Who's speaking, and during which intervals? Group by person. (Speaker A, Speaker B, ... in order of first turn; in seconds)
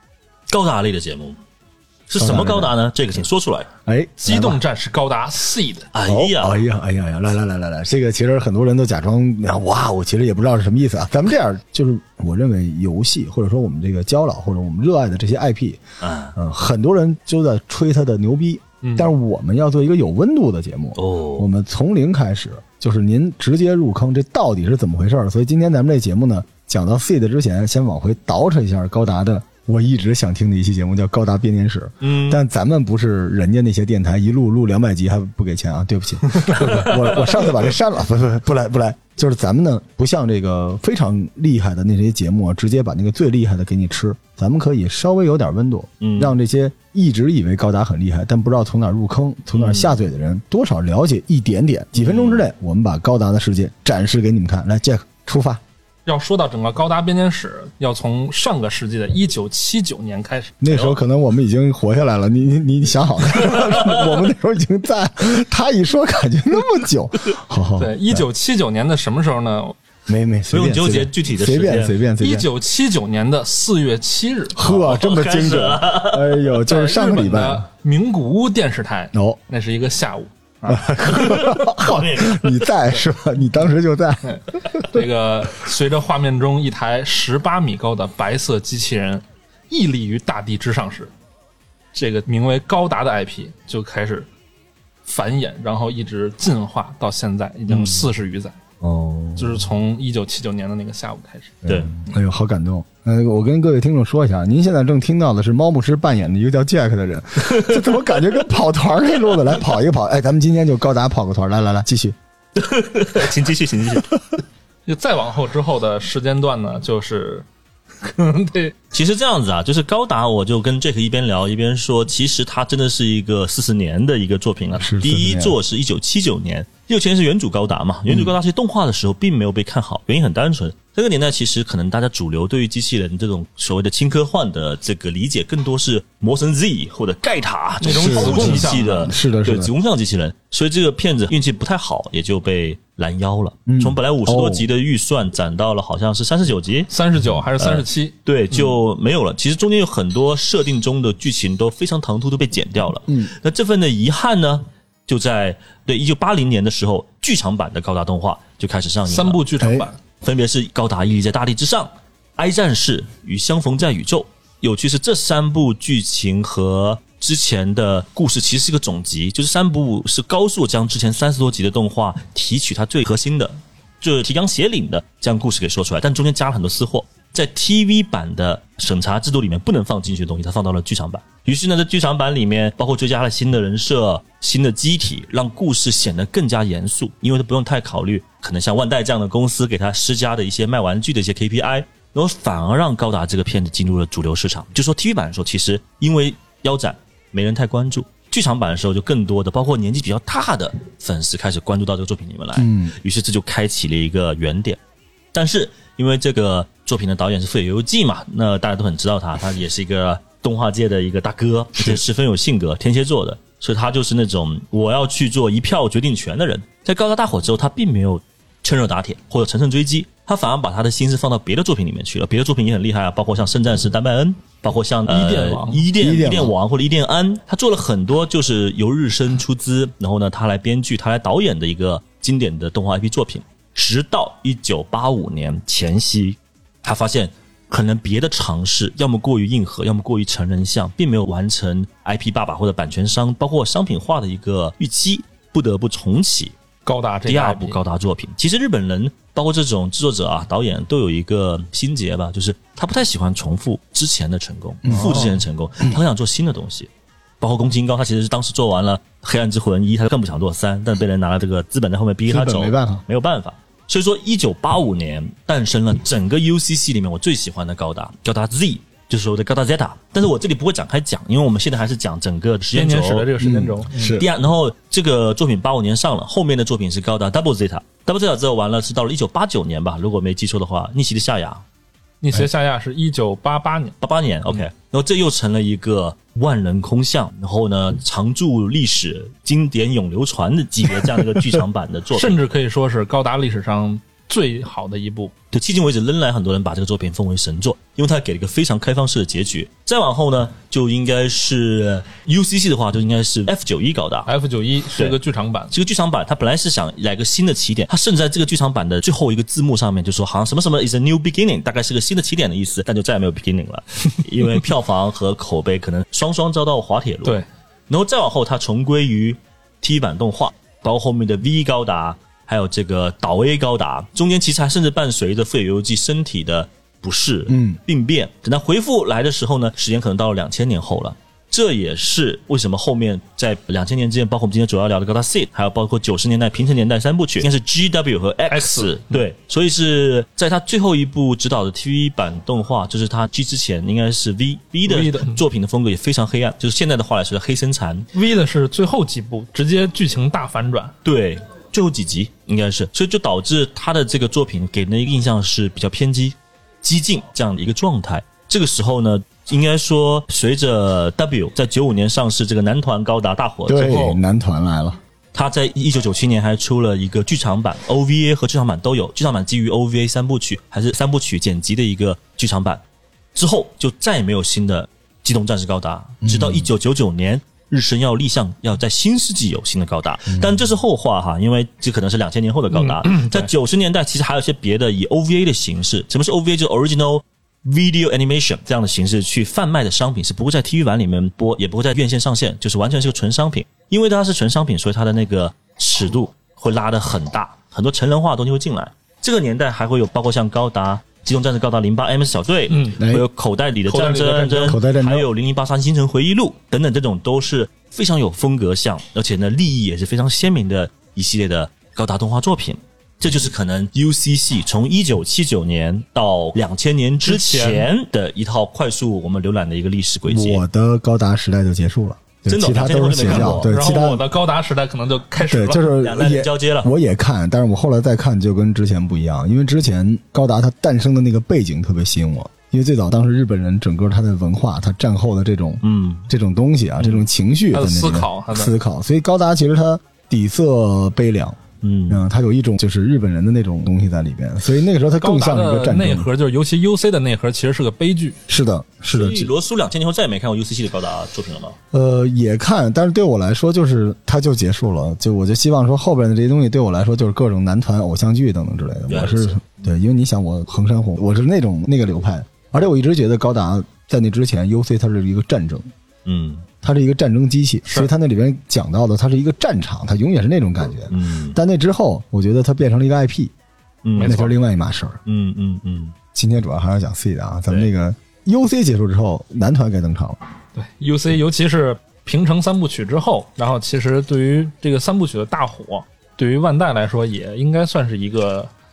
Speaker A: 0.5-1.4, 2.1-3.7, 5.9-6.6, 16.0-16.3, 20.9-21.4, 32.0-32.4, 36.5-36.8, 46.0-46.3, 49.5-50.0, 51.9-52.5, 60.7-61.0, 70.5-71.9, 74.6-76.6, 81.0-82.6, 97.7-98.0, 101.7-101.9, 112.5-114.1, 118.9-146.9, 147.6-159.4, 160.2-204.8, 205.3-246.5, 247.2-273.3, 274.1-281.6, 284.0-292.4, 295.5-304.3, 305.7-348.1, 351.0-364.2, 365.3-372.8, 373.3-420.6, 422.5-423.7, 426.0-426.9, 435.8-436.3, 441.8-442.2, 449.1-451.8, 459.1-459.7, 466.2-466.7, 471.1-471.6, 474.0-474.5, 475.2-476.1
Speaker B: 2.1-2.8, 3.9-4.6, 6.0-15.8, 16.3-55.6, 60.6-68.2, 70.1-72.5, 74.5-77.7, 79.1-79.4, 80.7-85.0, 98.8-99.7, 101.6-112.2, 124.8-125.6, 137.9-139.7, 143.7-144.7, 159.6-159.9, 202.6-202.9, 211.8-212.0, 225.9-226.5, 254.8-256.0, 262.3-263.0, 273.4-274.2, 327.5-327.8, 363.7-365.0, 376.2-376.7, 380.3-380.6, 403.0-403.2, 404.6-405.3, 420.3-424.2, 425.4-446.3, 448.5-449.5, 451.9-465.9, 466.8-473.5, 474.2-475.2, 476.3-480.4
Speaker C: 4.2-5.9, 18.8-19.1, 56.0-60.6, 67.8-69.8, 72.2-74.6, 76.7-80.9, 84.3-91.1, 91.9-94.3, 95.0-98.6, 99.4-101.6, 114.9-117.5, 118.0-118.7, 137.8-139.1, 146.9-148.2, 159.1-160.0, 225.1-225.9, 246.8-247.8, 254.9-255.3, 272.7-274.2, 282.2-283.9, 292.1-295.3, 304.3-305.7, 338.5-339.1, 344.9-345.4, 348.1-350.9, 382.7-383.5, 402.7-403.0, 403.9-404.8, 417.2-417.9, 423.2-425.9, 437.7-438.7, 445.2-448.4, 474.2-474.5, 480.7-488.7